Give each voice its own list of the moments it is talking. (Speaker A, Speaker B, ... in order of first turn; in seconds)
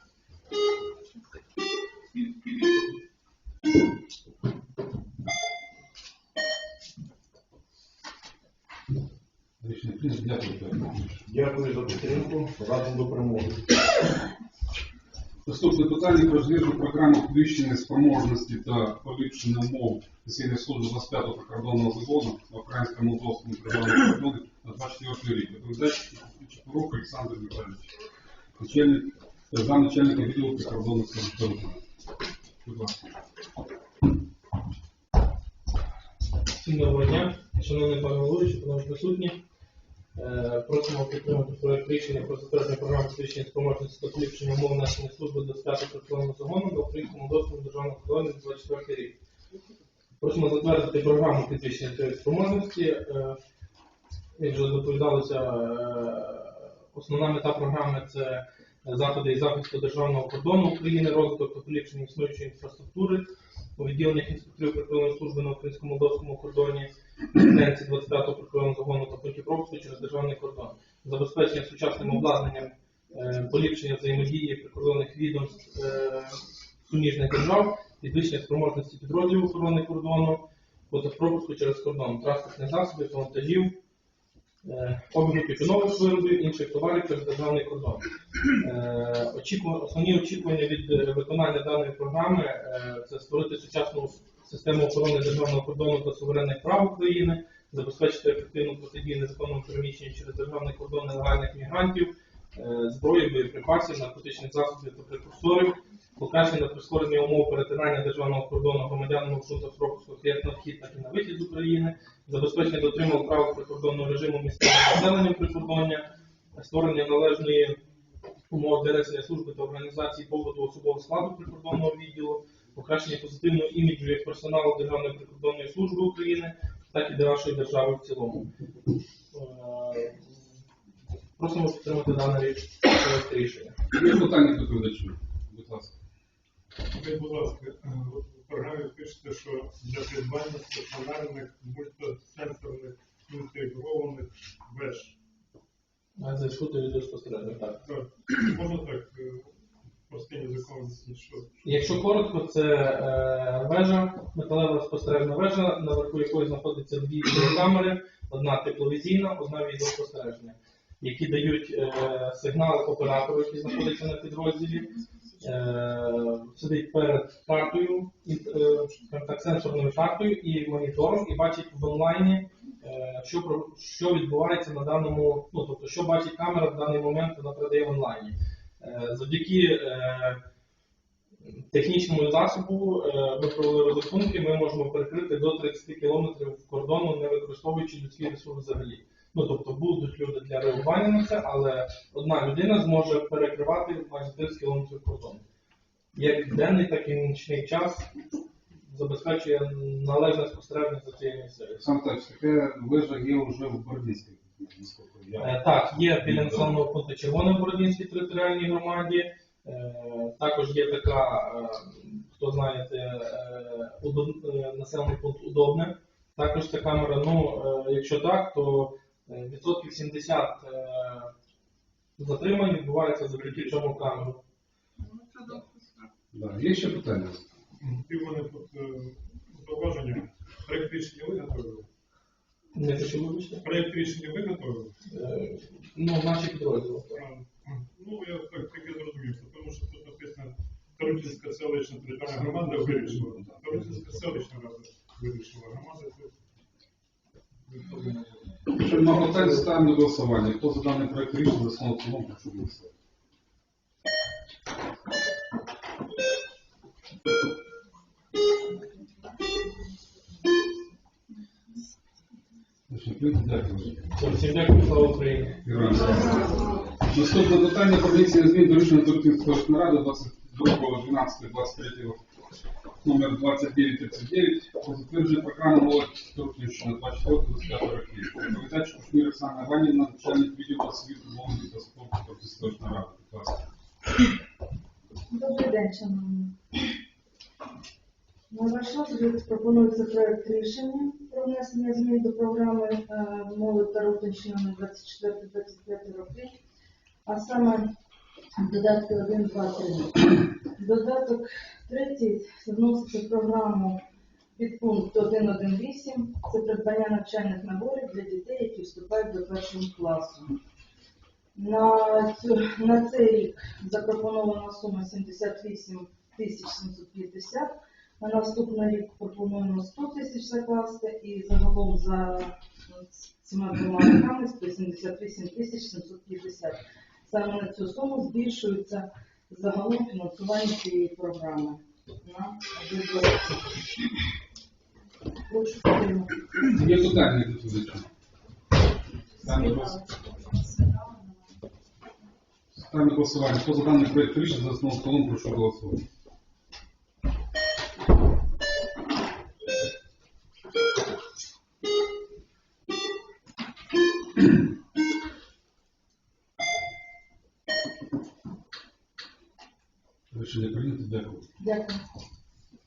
Speaker A: 9.6-11.2, 15.5-27.9, 28.6-31.8, 32.6-33.0, 133.9-136.0, 201.8-206.8, 226.3-227.5, 242.3-244.4, 248.7-252.9, 262.9-264.2, 265.6-266.6, 267.1-272.2, 273.0-283.6, 336.7-338.1, 339.4-340.0, 342.8-346.0, 360.3-361.5
Speaker B: 11.3-13.7
Speaker C: 36.6-39.4, 40.2-49.2, 50.2-53.4, 54.4-83.8, 84.6-117.8, 118.5-128.5, 129.3-130.4, 131.4-133.8, 146.2-147.8, 151.6-180.4, 181.4-195.4, 196.2-198.1, 198.9-201.8, 205.4-221.3, 222.2-224.4, 232.7-233.6, 235.1-237.2, 264.2-265.6
Speaker D: 136.9-145.2, 147.8-151.9, 223.4-223.7, 225.1-226.0, 227.8-231.9, 233.6-234.9, 237.1-246.4, 247.7-249.7
Speaker E: 285.3-286.6, 288.5-296.5, 297.3-297.9, 298.6-304.0, 304.6-310.6, 311.6-333.7, 335.5-336.4, 339.4-339.7, 361.6-362.0